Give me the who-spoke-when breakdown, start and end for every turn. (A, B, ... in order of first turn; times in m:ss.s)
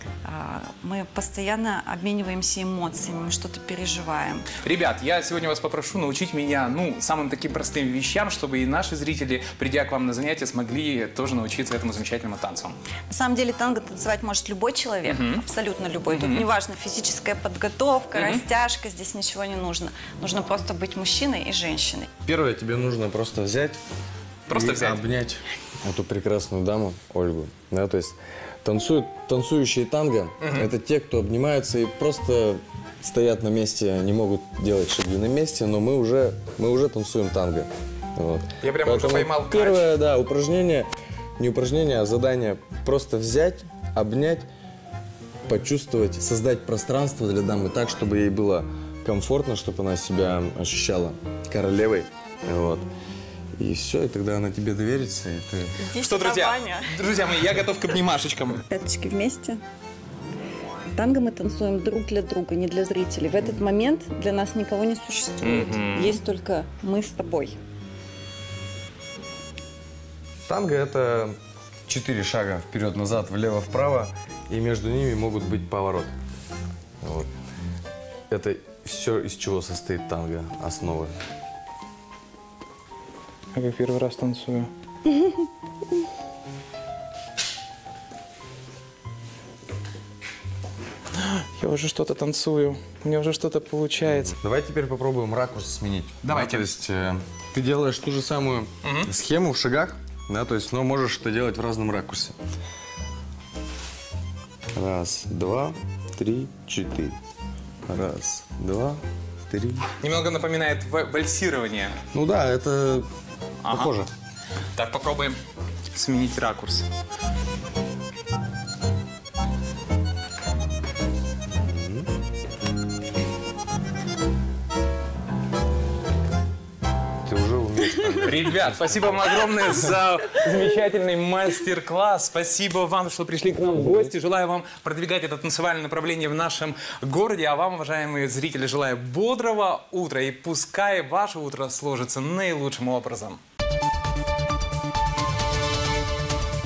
0:00.2-0:04.5 A
0:04.6-0:12.8 B
0:13.1-0:22.1 A
0:15.1-0:15.4 B
0:16.1-0:16.5 B
0:18.1-0:18.4 B
0:22.2-0:23.8 C
0:24.5-0:44.5 C
0:24.5-0:25.0 B
0:30.4-0:30.7 B
0:38.6-0:39.9 B
0:45.4-0:52.9 C
0:53.6-0:55.8 C
0:55.8-0:57.0 A
0:56.0-0:58.6 B
0:58.7-0:59.6 A
1:00.9-1:07.6 A
1:05.4-1:06.2 B
1:10.5-1:11.4 C
1:11.9-1:16.1 C
1:17.0-1:17.3 C
1:18.3-1:21.2 C
1:23.5-1:24.7 B
1:31.1-1:34.4 B
1:34.3-1:42.4 C
1:36.2-1:36.7 B
1:38.8-1:39.1 B
1:44.7-1:47.2 C
1:47.9-1:49.9 C
1:50.0-1:52.0 B
1:52.1-1:53.1 C
1:53.6-1:53.9 B
1:53.7-1:54.1 C
1:54.8-1:55.4 B
1:55.9-1:56.9 B
2:01.6-2:02.1 C
2:07.2-2:09.2 C
2:08.2-2:23.4 B